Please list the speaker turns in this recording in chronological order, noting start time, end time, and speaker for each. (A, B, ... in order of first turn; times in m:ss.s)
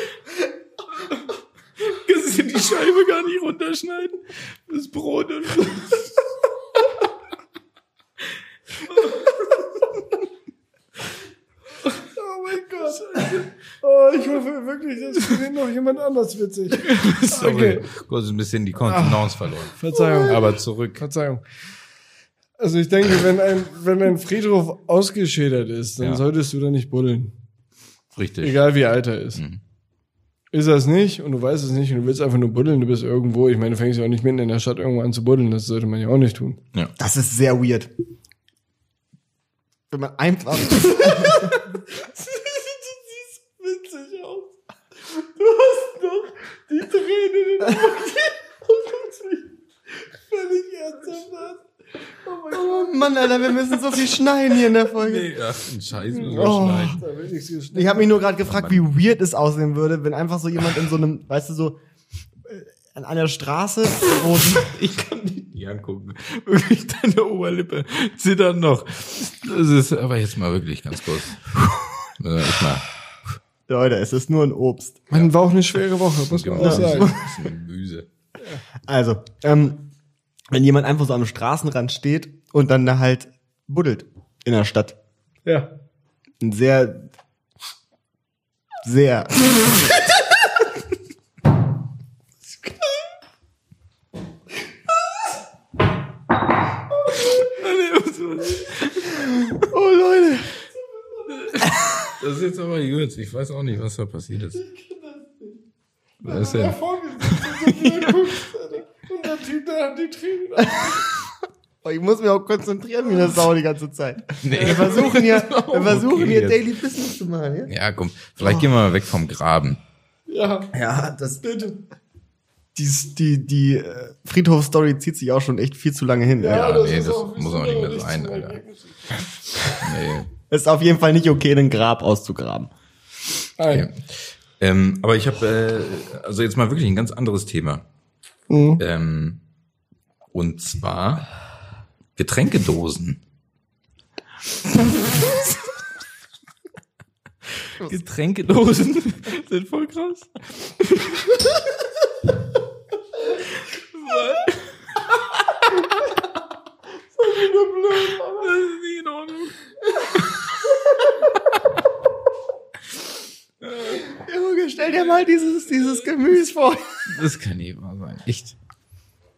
0:01.8-0:06.1 A
0:08.9-0:09.5 A
0:11.9-0:17.9 B
0:12.9-0:13.5 A
0:16.8-0:21.0 A
0:18.8-0:21.4 B
0:22.6-0:27.3 B
0:28.2-0:28.7 A
0:28.4-0:29.4 B
0:29.4-0:29.6 A
0:30.5-0:36.6 B
0:37.0-0:37.9 C
0:39.9-0:41.6 C
0:41.0-0:49.5 B
0:50.2-0:53.9 B
0:52.5-0:55.3 C
0:54.9-0:57.0 A
0:56.1-0:58.2 B
0:56.2-0:57.0 C
0:57.7-1:01.8 C
0:58.5-0:58.8 A
1:02.5-1:04.8 C
1:04.4-1:12.9 A
1:13.7-1:15.1 C
1:15.1-1:17.2 B
1:16.3-1:18.1 A
1:16.6-1:17.3 C
1:18.9-1:19.9 C
1:20.5-1:25.0 C
1:25.4-1:25.7 B
1:26.4-1:27.1 C
1:28.8-1:29.5 C
1:37.1-1:39.6 A
1:39.4-1:40.5 C
1:41.0-1:41.6 B
1:41.4-1:44.6 A
1:44.6-1:45.6 B
1:46.2-1:48.4 A
1:46.2-1:51.0 B
1:50.7-1:51.0 C
1:51.8-1:57.7 C
1:54.4-1:56.6 A
1:54.6-1:55.3 B
1:57.7-1:59.8 A
2:00.3-2:00.7 B
2:00.7-2:01.4 C
2:01.4-2:01.8 B
2:02.8-2:06.8 C
2:06.4-2:09.7 B
2:06.5-2:08.6 A
2:09.8-2:10.3 A
2:10.5-2:12.7 C
2:13.6-2:13.9 B
2:13.7-2:17.8 A
2:18.5-2:18.8 B
2:18.8-2:19.4 A
2:20.3-2:21.3 A
2:22.2-2:23.2 A
2:27.6-2:31.5 A
2:33.6-2:35.7 A
2:37.2-2:38.6 B
2:38.4-2:39.6 A
2:43.6-2:44.0 A
2:44.2-2:47.0 C
2:47.1-2:48.6 A